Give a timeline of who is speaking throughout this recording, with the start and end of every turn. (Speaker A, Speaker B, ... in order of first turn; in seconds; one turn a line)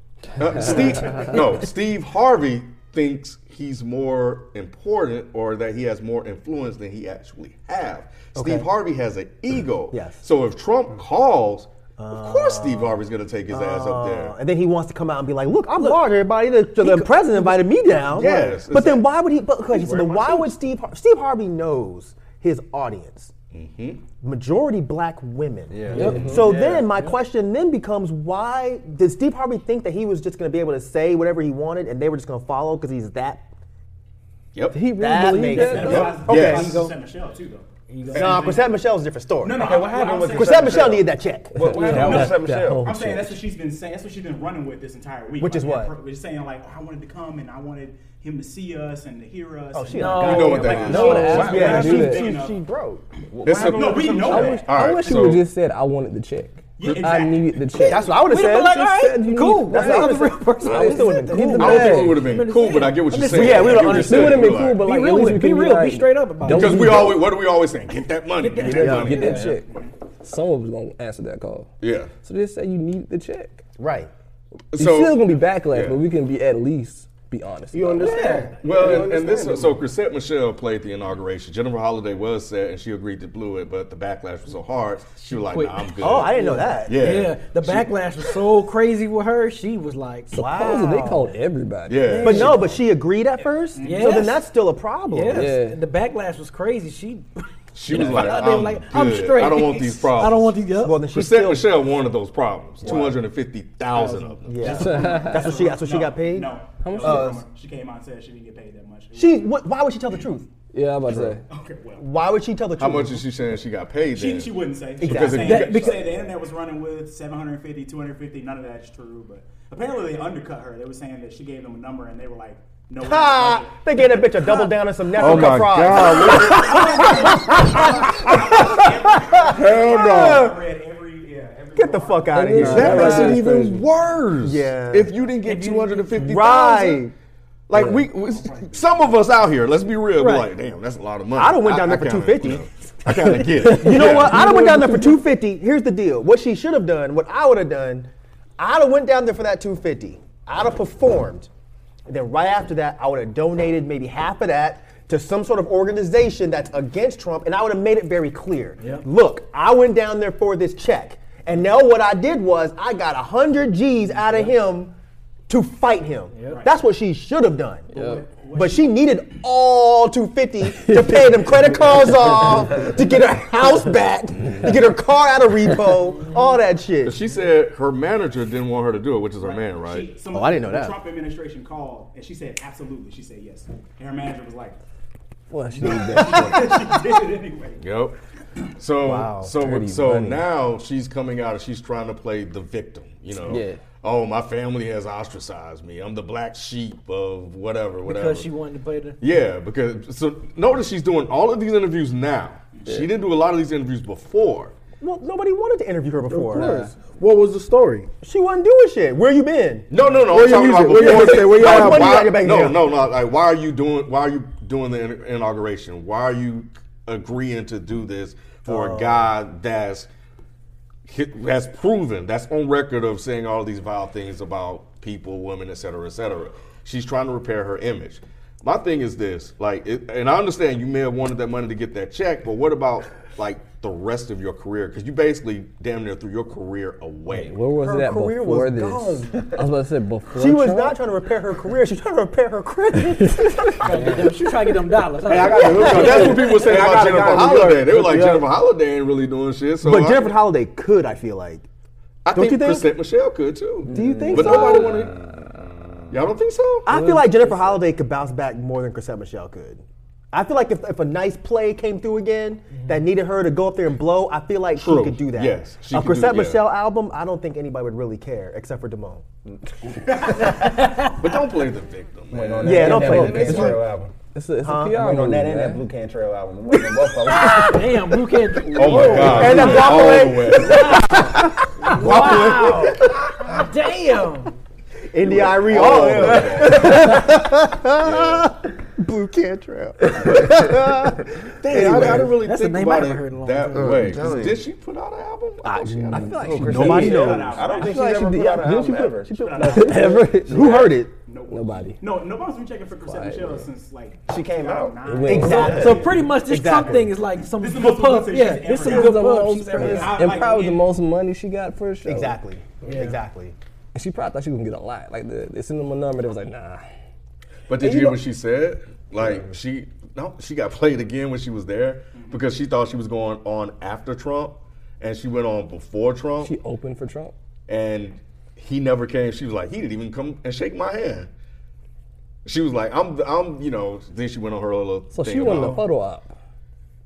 Speaker A: 0.4-14.4
Speaker B: 8.3-8.7
Speaker B: 9.9-10.2
Speaker B: 12.0-23.3
Speaker A: 18.0-19.1
Speaker C: 19.7-20.5
Speaker A: 23.5-24.1
Speaker B: 24.2-33.4
Speaker C: 25.7-27.0
Speaker D: 25.9-26.3
Speaker E: 25.9-26.5
Speaker A: 34.5-34.9
Speaker E: 34.7-36.1
Speaker B: 34.9-36.9
Speaker F: 35.5-38.7
Speaker D: 35.6-36.9
Speaker A: 35.7-36.9
Speaker D: 37.9-38.4
Speaker B: 38.1-39.7
Speaker F: 39.4-41.0
Speaker C: 39.6-42.9
Speaker B: 40.3-41.6
Speaker E: 41.5-43.4
Speaker F: 41.8-52.6
Speaker B: 45.4-45.9
Speaker B: 49.7-53.0
Speaker D: 49.9-51.9
Speaker A: 50.1-51.3
Speaker E: 50.9-52.3
Speaker C: 51.2-52.1
Speaker C: 53.3-54.6
Speaker A: 53.4-55.4
Speaker F: 53.5-54.7
Speaker E: 54.3-62.4
Speaker F: 56.8-57.5
Speaker B: 57.8-58.8
Speaker D: 58.0-67.1
Speaker B: 59.6-62.2
Speaker A: 61.5-64.8
Speaker B: 63.3-64.1
Speaker E: 63.9-67.2
Speaker A: 66.5-69.5
Speaker D: 68.4-69.5
Speaker E: 68.7-69.7
Speaker E: 70.2-71.7
Speaker A: 71.8-72.1
Speaker E: 72.2-73.6
Speaker B: 73.8-74.1
Speaker A: 74.7-76.0
Speaker E: 74.7-78.3
Speaker G: 77.7-79.8
Speaker D: 78.0-78.5
Speaker A: 78.6-88.4
Speaker D: 85.2-90.3
Speaker B: 86.0-87.0
Speaker E: 90.3-92.7
Speaker B: 90.3-91.4
Speaker A: 91.9-92.7
Speaker B: 92.2-95.5
Speaker F: 93.7-94.4
Speaker D: 93.8-94.4
Speaker D: 95.1-101.0
Speaker E: 95.3-95.8
Speaker A: 97.7-105.0
Speaker B: 100.8-101.8
Speaker B: 102.8-103.2
Speaker B: 104.4-107.4
Speaker F: 104.6-109.6
Speaker E: 104.8-105.5
Speaker E: 106.8-107.4
Speaker B: 109.1-110.5
Speaker E: 110.7-111.4
Speaker B: 111.1-111.3
Speaker F: 111.5-112.0
Speaker B: 112.0-113.2
Speaker A: 112.8-116.1
Speaker F: 114.1-133.1
Speaker B: 115.0-115.5
Speaker D: 115.4-116.0
Speaker B: 123.0-130.6
Speaker A: 125.1-127.1
Speaker A: 129.5-130.4
Speaker B: 131.8-133.4
Speaker E: 132.3-133.8
Speaker A: 132.5-137.0
Speaker B: 134.4-135.2
Speaker D: 135.4-136.4
Speaker B: 136.2-137.1
Speaker A: 137.7-144.5
Speaker E: 137.7-138.1
Speaker F: 138.4-138.7
Speaker D: 140.2-140.5
Speaker B: 141.3-151.5
Speaker E: 143.7-145.1
Speaker B: 152.1-164.9
Speaker D: 158.8-159.1
Speaker B: 165.5-167.9
Speaker D: 166.3-166.6
Speaker F: 166.5-166.8
Speaker F: 167.9-169.0
Speaker E: 167.9-168.2
Speaker B: 168.5-177.2
Speaker E: 170.6-172.9
Speaker E: 174.4-174.7
Speaker A: 177.0-180.2
Speaker F: 179.4-184.8
Speaker B: 180.3-180.9
Speaker E: 185.5-187.0
Speaker F: 185.7-187.8
Speaker B: 185.8-186.8
Speaker A: 187.8-188.2
Speaker A: 188.8-198.5
Speaker B: 189.0-189.6
Speaker E: 189.6-190.4
Speaker E: 193.5-193.8
Speaker D: 198.0-199.2
Speaker A: 199.2-204.7
Speaker B: 205.0-206.9
Speaker G: 206.3-208.1
Speaker B: 208.2-210.0
Speaker A: 209.9-220.1
Speaker G: 210.2-212.2
Speaker B: 210.9-212.8
Speaker B: 218.7-219.3
Speaker A: 221.1-237.6
Speaker E: 237.3-241.0
Speaker B: 237.8-239.6
Speaker B: 240.3-244.0
Speaker D: 243.8-246.7
Speaker G: 245.2-248.5
Speaker A: 245.7-250.3
Speaker B: 249.8-251.7
Speaker A: 252.2-255.2
Speaker B: 252.3-252.9
Speaker B: 253.9-255.1
Speaker C: 253.9-255.2
Speaker A: 256.1-256.9
Speaker B: 256.9-269.2
Speaker E: 256.9-257.7
Speaker A: 264.7-266.7
Speaker B: 270.4-270.7
Speaker D: 270.5-271.1
Speaker A: 271.0-273.6
Speaker C: 272.3-274.1
Speaker B: 272.6-273.8
Speaker E: 272.7-273.8
Speaker E: 274.3-275.8
Speaker B: 274.6-275.1
Speaker C: 275.0-277.8
Speaker D: 277.4-281.3
Speaker A: 278.7-281.1
Speaker B: 278.8-283.6
Speaker G: 278.9-280.3
Speaker D: 281.8-284.6
Speaker B: 285.1-292.4
Speaker A: 285.2-287.2
Speaker C: 285.8-286.6
Speaker A: 288.0-288.5
Speaker A: 291.5-297.2
Speaker D: 292.0-294.2
Speaker C: 293.7-294.6
Speaker B: 295.6-297.7
Speaker E: 296.1-300.9
Speaker C: 296.4-299.8
Speaker F: 297.0-298.5
Speaker F: 299.3-306.1
Speaker B: 300.4-301.1
Speaker E: 301.5-302.0
Speaker E: 303.0-303.7
Speaker C: 304.3-306.0
Speaker E: 305.0-306.0
Speaker B: 305.3-307.1
Speaker D: 305.6-310.2
Speaker F: 307.6-310.9
Speaker E: 308.8-312.4
Speaker B: 312.1-313.6
Speaker D: 312.8-313.2
Speaker E: 313.9-316.9
Speaker A: 317.7-326.5
Speaker F: 322.1-322.4
Speaker E: 326.4-327.3
Speaker A: 327.7-331.3
Speaker A: 332.4-335.8
Speaker E: 335.1-336.4